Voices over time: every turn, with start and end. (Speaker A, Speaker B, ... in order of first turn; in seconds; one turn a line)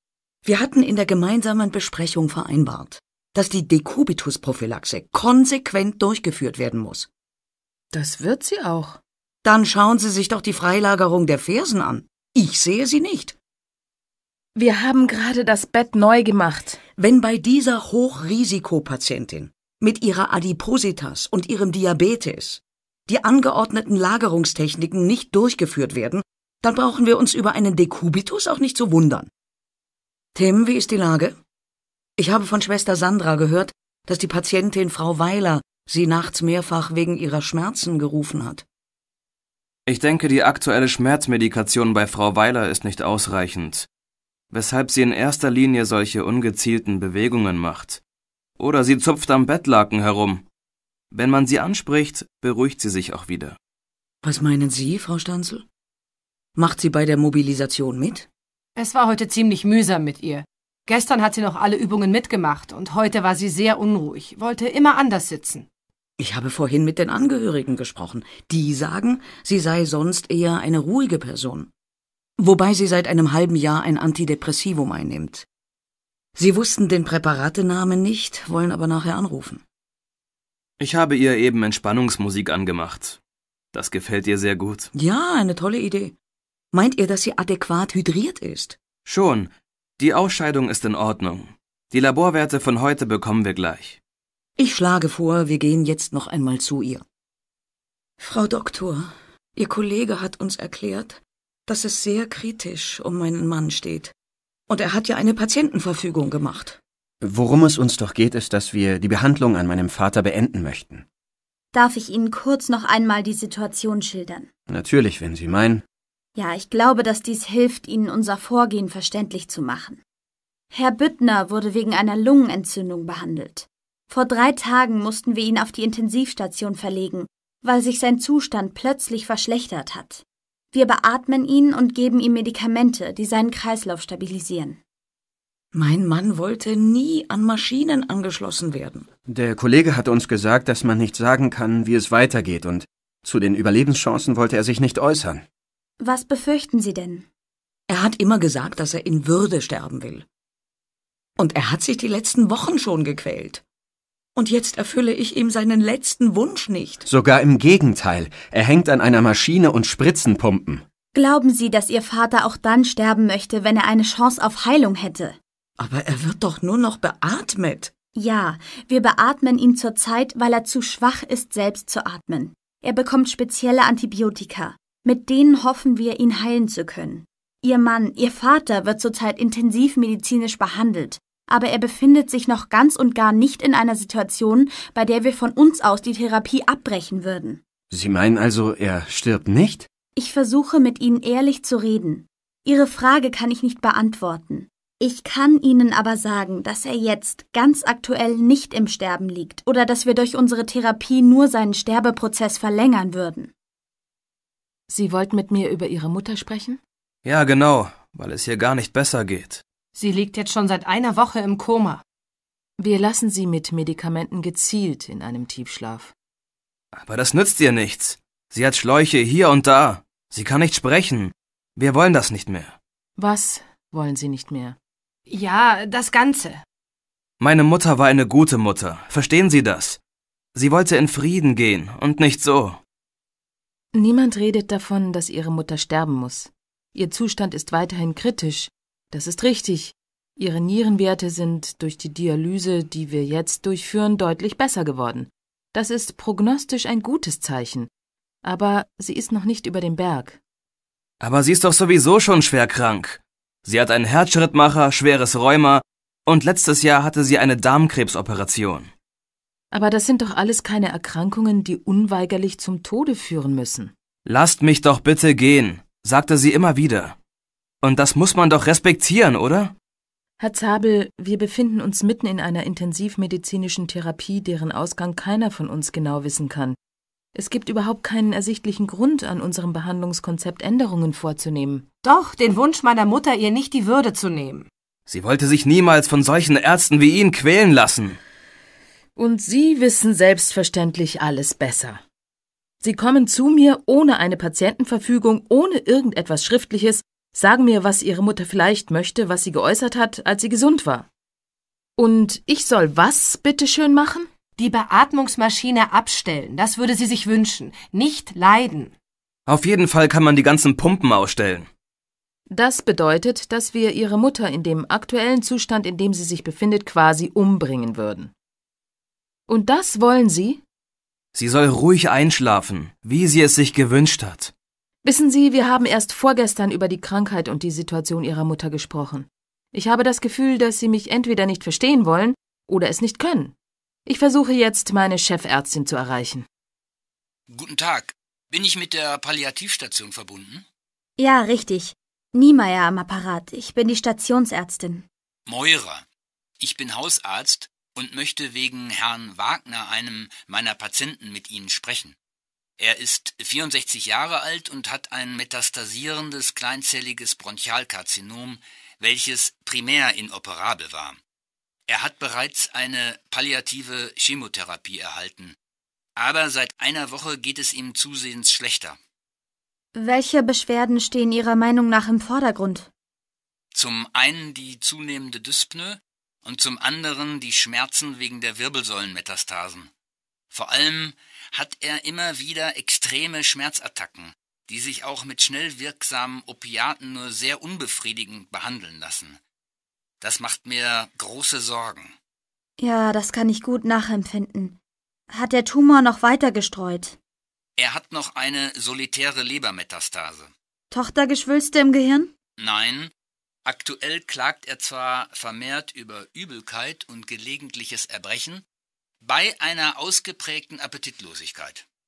Speaker A: 0.4-7.1
Speaker B: 7.9-9.0
Speaker A: 9.4-13.3
Speaker B: 14.6-16.8
Speaker A: 17.0-29.3
Speaker A: 30.3-31.4
Speaker A: 32.2-38.6
Speaker C: 39.9-43.9
Speaker C: 44.5-48.0
Speaker C: 48.6-50.4
Speaker C: 51.1-53.6
Speaker A: 54.2-55.6
Speaker A: 56.5-58.3
Speaker D: 58.8-65.7
Speaker A: 66.2-71.7
Speaker A: 72.4-75.5
Speaker A: 76.3-79.6
Speaker C: 80.8-83.2
Speaker C: 83.7-84.9
Speaker A: 84.9-86.1
Speaker A: 86.7-88.8
Speaker C: 89.0-94.0
Speaker A: 94.6-97.0
Speaker A: 98.2-104.1
Speaker A: 104.7-106.8
Speaker E: 107.2-111.0
Speaker F: 111.7-114.5
Speaker E: 114.7-115.8
Speaker F: 116.3-120.0
Speaker F: 120.7-134.8
Speaker A: 135.7-139.1
Speaker E: 139.3-145.4
Speaker F: 146.0-147.3
Speaker A: 147.9-150.2
Speaker A: 151.4-153.6
Speaker A: 154.3-157.1
Speaker E: 157.1-160.8
Speaker F: 161.1-165.4
Speaker A: 165.8-167.9
Speaker F: 168.1-187.6
Speaker E: 187.9-189.9
Speaker F: 190.2-203.5
Speaker B: 204.9-206.8
Speaker C: 207.2-209.6
Speaker D: 209.9-212.0
Speaker B: 212.8-216.1
Speaker C: 216.9-222.8
Speaker B: 223.2-224.8
Speaker D: 225.3-226.6
Speaker C: 227.4-230.0
Speaker C: 230.5-232.8
Speaker B: 233.9-247.9
Speaker B: 248.4-250.4
Speaker C: 251.2-258.9
Speaker B: 259.7-263.9
Speaker C: 264.2-267.1
Speaker C: 267.8-269.7
Speaker B: 270.4-276.8
Speaker B: 277.3-281.8
Speaker D: 282.0-284.7
Speaker C: 285.1-288.2
Speaker B: 289.1-292.0
Speaker B: 292.8-301.1
Speaker B: 302.0-304.3
Speaker D: 304.6-308.9
Speaker C: 309.5-311.7
Speaker B: 312.5-318.3
Speaker B: 319.5-320.6
Speaker C: 321.3-324.5
Speaker B: 325.0-333.5
Speaker B: 334.1-336.4
Speaker G: 337.5-340.6
Speaker F: 341.2-345.1
Speaker G: 345.4-346.0
Speaker G: 346.6-352.1
Speaker G: 352.8-361.2
Speaker G: 361.9-365.6
Speaker G: 366.2-369.0
Speaker F: 369.9-372.9
Speaker G: 373.7-379.9
Speaker G: 380.5-389.4
Speaker G: 390.2-392.1
Speaker F: 392.8-394.8
Speaker F: 395.3-397.2
Speaker G: 397.8-400.5
Speaker F: 400.9-402.3
Speaker G: 402.6-403.1
Speaker G: 403.6-408.6
Speaker G: 409.2-411.8